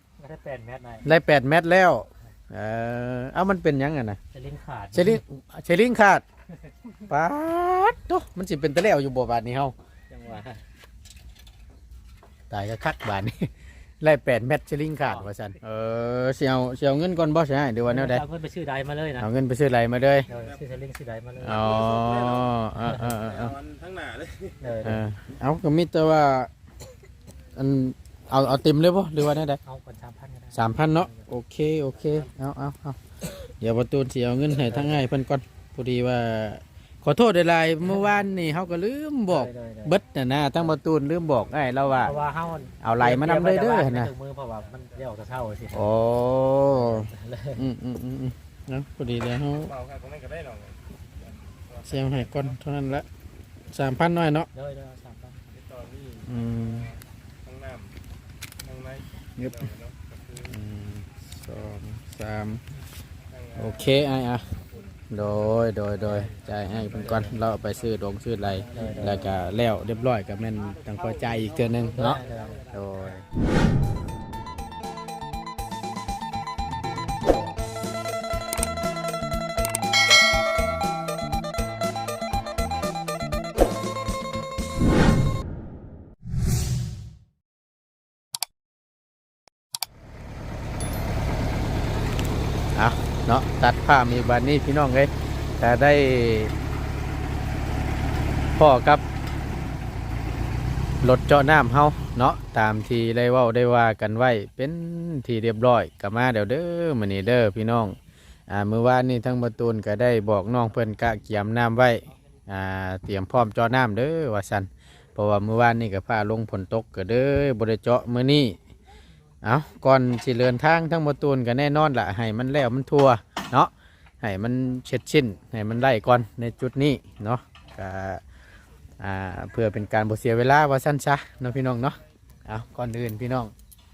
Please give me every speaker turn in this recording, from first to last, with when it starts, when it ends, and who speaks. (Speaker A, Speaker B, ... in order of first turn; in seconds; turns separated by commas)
Speaker A: 0.2-1.1, Speaker B: 1.1-4.2, Speaker A: 4.3-5.2, Speaker B: 4.9-6.2, Speaker B: 7.1-9.7, Speaker A: 10.1-10.6, Speaker B: 12.5-13.5, Speaker B: 14.0-18.2, Speaker A: 15.0-15.3, Speaker A: 17.9-19.3, Speaker B: 19.2-20.3, Speaker A: 20.3-21.7, Speaker C: 20.3-20.6, Speaker B: 21.4-23.5, Speaker C: 21.5-22.5, Speaker A: 22.8-23.1, Speaker C: 23.1-24.8, Speaker A: 24.6-25.0, Speaker B: 24.8-26.5, Speaker B: 27.6-29.6, Speaker A: 29.6-31.3, Speaker B: 30.5-42.2, Speaker A: 34.7-35.0, Speaker A: 39.3-40.0, Speaker A: 41.9-45.9, Speaker B: 42.8-44.1, Speaker B: 45.7-49.7, Speaker A: 46.7-47.7, Speaker C: 49.5-52.5, Speaker B: 51.9-53.0, Speaker B: 53.7-54.5, Speaker A: 54.5-55.5, Speaker C: 55.5-58.0, Speaker B: 56.3-56.9, Speaker C: 58.6-60.5, Speaker B: 59.4-59.7, Speaker B: 60.5-62.6, Speaker C: 63.3-64.0, Speaker B: 63.6-64.5, Speaker B: 65.1-72.2, Speaker C: 66.0-67.9, Speaker A: 67.0-67.3, Speaker A: 68.6-69.4, Speaker C: 68.7-69.3, Speaker C: 70.8-73.0, Speaker A: 71.9-72.7, Speaker B: 72.7-73.2, Speaker B: 92.8-96.5, Speaker B: 98.6-99.0, Speaker B: 101.0-108.0, Speaker B: 108.5-118.6, Speaker B: 119.4-128.2, Speaker B: 129.0-133.5